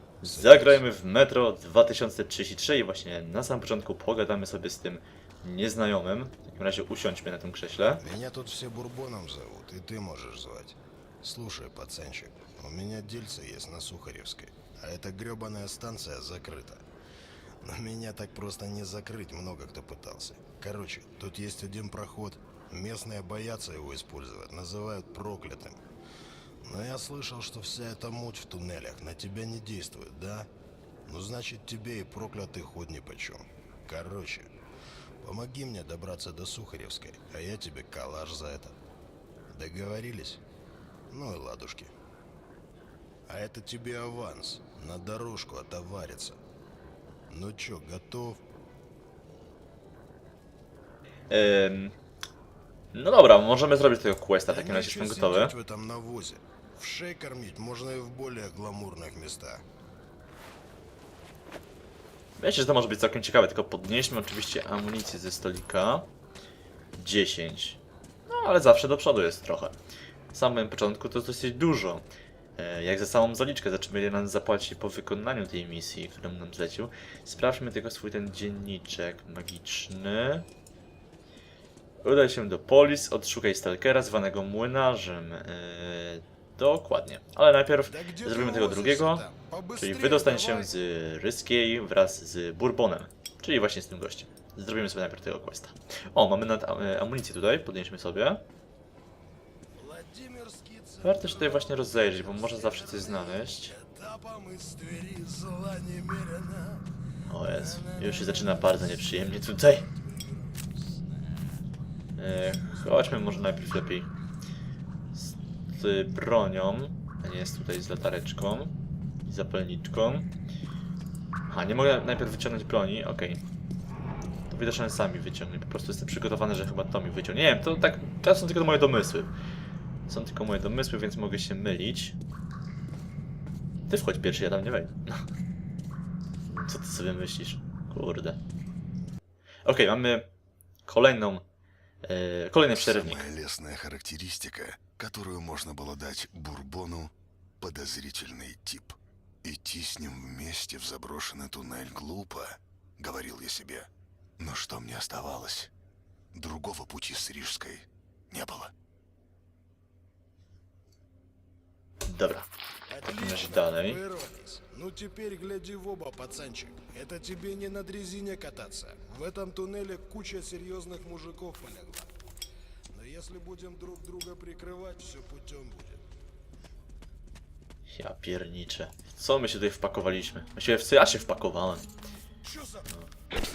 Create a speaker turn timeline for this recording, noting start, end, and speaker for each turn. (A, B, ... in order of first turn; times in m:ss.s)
0:00.2-0:08.0 A
0:00.2-0:00.8 B
0:08.0-0:16.8 B
0:17.6-0:25.8 B
0:26.6-0:30.5 B
0:31.1-0:34.5 B
0:35.2-0:38.8 B
0:39.5-0:40.4 B
0:41.1-0:41.9 B
0:43.3-0:46.4 B
0:47.3-0:48.4 B
0:51.3-0:52.0 A
0:52.9-0:55.5 A
0:54.5-0:59.6 B
1:02.4-1:06.1 A
1:07.0-1:09.8 A
1:10.3-1:12.0 A
1:12.6-1:20.4 A
1:22.0-1:29.2 A
1:27.9-1:30.7 B
1:29.8-1:38.4 A
1:39.8-1:46.8 B
1:41.0-1:43.8 A
1:47.3-1:49.9 A
1:47.4-1:51.4 B
1:52.2-1:54.1 A
1:52.6-1:54.1 B
1:55.1-1:58.7 A
1:59.3-2:00.3 A
2:01.5-2:03.4 A
2:04.5-2:09.3 A
2:10.1-2:12.2 A
2:13.9-2:15.2 A
2:16.6-2:18.4 A
2:19.7-2:20.3 A
2:20.9-2:21.4 A
2:22.0-2:23.3 A
2:22.7-2:35.7 C
2:36.3-2:38.7 C
2:42.1-2:42.5 A
2:42.9-2:52.1 B
2:43.1-2:44.0 A
2:52.9-2:56.0 B
2:57.9-3:01.9 A
3:02.4-3:03.0 B